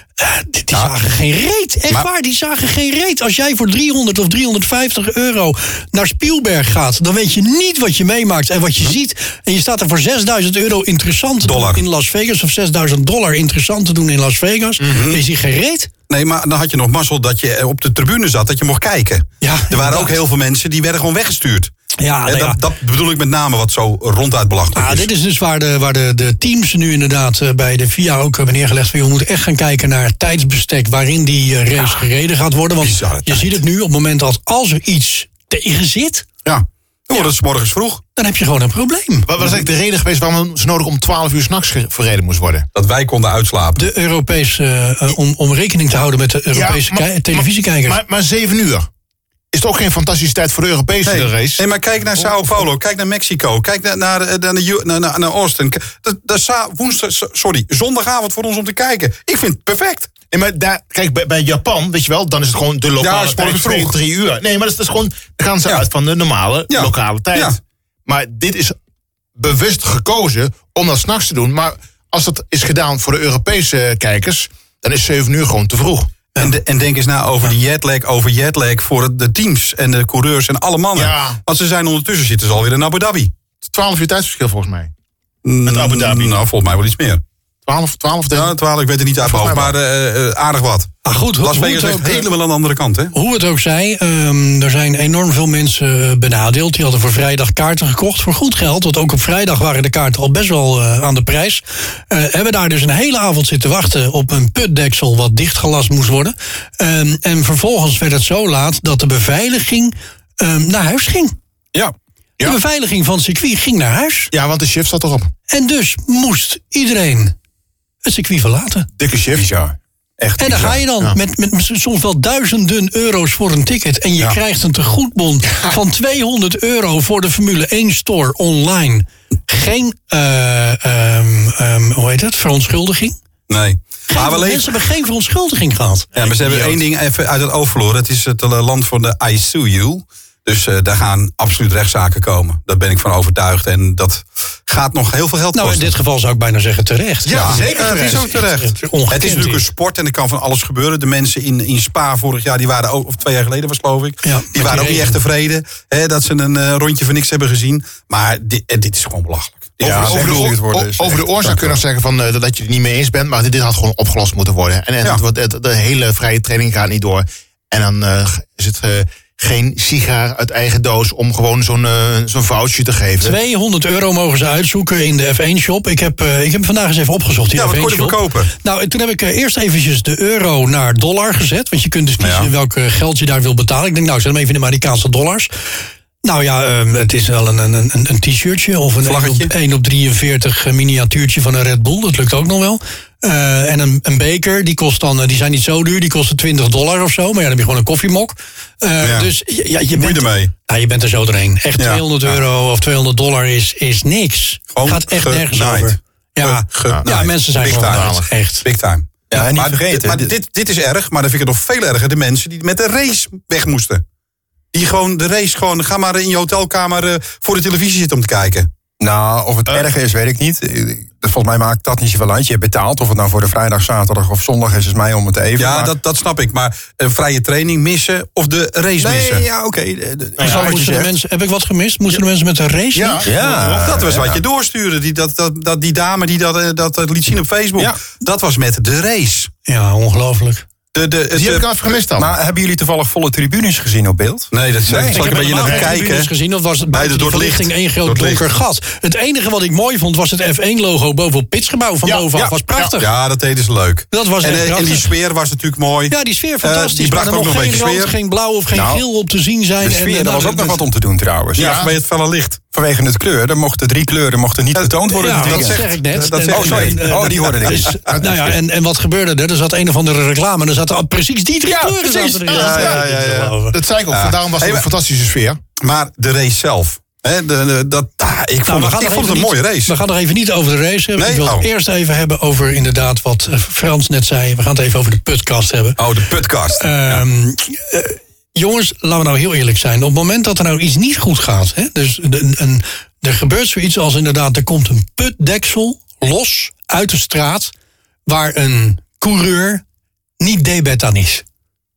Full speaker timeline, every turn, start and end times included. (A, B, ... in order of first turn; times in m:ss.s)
0:00.2-0:15.9 A
0:11.4-0:11.8 B
0:14.8-0:15.2 B
0:16.1-0:21.7 B
0:19.4-0:20.2 A
0:22.0-0:22.6 A
0:22.2-0:25.1 B
0:24.7-0:36.3 A
0:32.8-0:33.6 B
0:36.4-0:38.0 B
0:38.2-0:39.3 A
0:39.2-0:42.7 C
0:42.7-0:43.8 B
0:43.8-0:48.0 A
0:46.5-0:48.9 C
0:49.5-0:51.6 C
0:51.0-1:00.1 B
0:52.2-0:52.6 C
1:00.3-1:08.7 C
1:03.0-1:04.0 B
1:06.7-1:07.6 B
1:09.4-1:16.1 C
1:16.4-1:23.3 B
1:20.9-1:21.4 C
1:23.7-1:24.9 C
1:25.4-1:27.2 B
1:25.6-1:26.3 C
1:27.7-1:28.6 C
1:28.3-1:33.1 B
1:29.2-1:29.7 C
1:31.0-1:32.3 A
1:33.1-1:51.4 A
1:52.4-1:54.3 A
1:54.3-1:55.3 C
1:55.5-1:57.3 A
1:58.0-1:58.9 A
1:59.0-1:59.4 C
1:59.3-2:00.8 D
2:00.4-2:13.2 A
2:13.5-2:14.9 B
2:14.1-2:16.2 A
2:16.2-2:25.9 B
2:25.5-2:29.6 A
2:27.2-2:28.3 C
2:27.2-2:40.6 B
2:34.2-2:35.2 A
2:39.8-2:41.8 D
2:39.8-2:53.4 C
2:41.4-2:41.7 B
2:53.2-3:05.5 A
2:57.5-2:58.5 B
3:02.2-3:02.5 B
3:06.2-3:28.6 A
3:09.0-3:09.5 B
3:19.0-3:19.3 B
3:20.0-3:20.5 B
3:21.8-3:22.4 B
3:24.7-3:34.0 B
3:27.7-3:28.3 C
3:29.3-3:30.3 D
3:34.7-3:38.7 B
3:39.0-3:45.9 D
3:45.6-3:49.4 B
3:49.0-3:51.1 D
3:50.4-3:50.6 C
3:50.4-3:53.2 A
3:52.9-3:53.8 C
3:53.2-3:54.4 D
3:53.3-3:59.5 B
3:59.7-4:00.6 A
4:00.9-4:01.6 B
4:01.3-4:02.3 C
4:02.2-4:05.2 D
4:04.5-4:06.3 B
4:05.1-4:13.1 A
4:05.6-4:05.9 C
4:06.9-4:08.4 B
4:12.0-4:12.9 C
4:13.0-4:18.1 B
4:14.1-4:15.1 A
4:16.1-4:20.8 A
4:18.7-4:19.0 D
4:19.8-4:21.8 D
4:21.6-4:22.6 B
4:21.6-4:21.9 C
4:22.7-4:25.8 D
4:24.7-4:27.0 B
4:25.2-4:33.8 A
4:26.5-4:28.2 D
4:28.1-4:28.4 C
4:31.7-4:32.4 D
4:32.4-4:35.6 C
4:32.5-4:33.5 B
4:34.1-4:34.9 B
4:35.8-4:39.9 B
4:38.6-4:46.0 A
4:41.2-4:41.7 B
4:46.0-4:47.2 B
4:46.7-4:57.7 A
4:58.3-4:59.8 A
5:00.4-5:01.4 A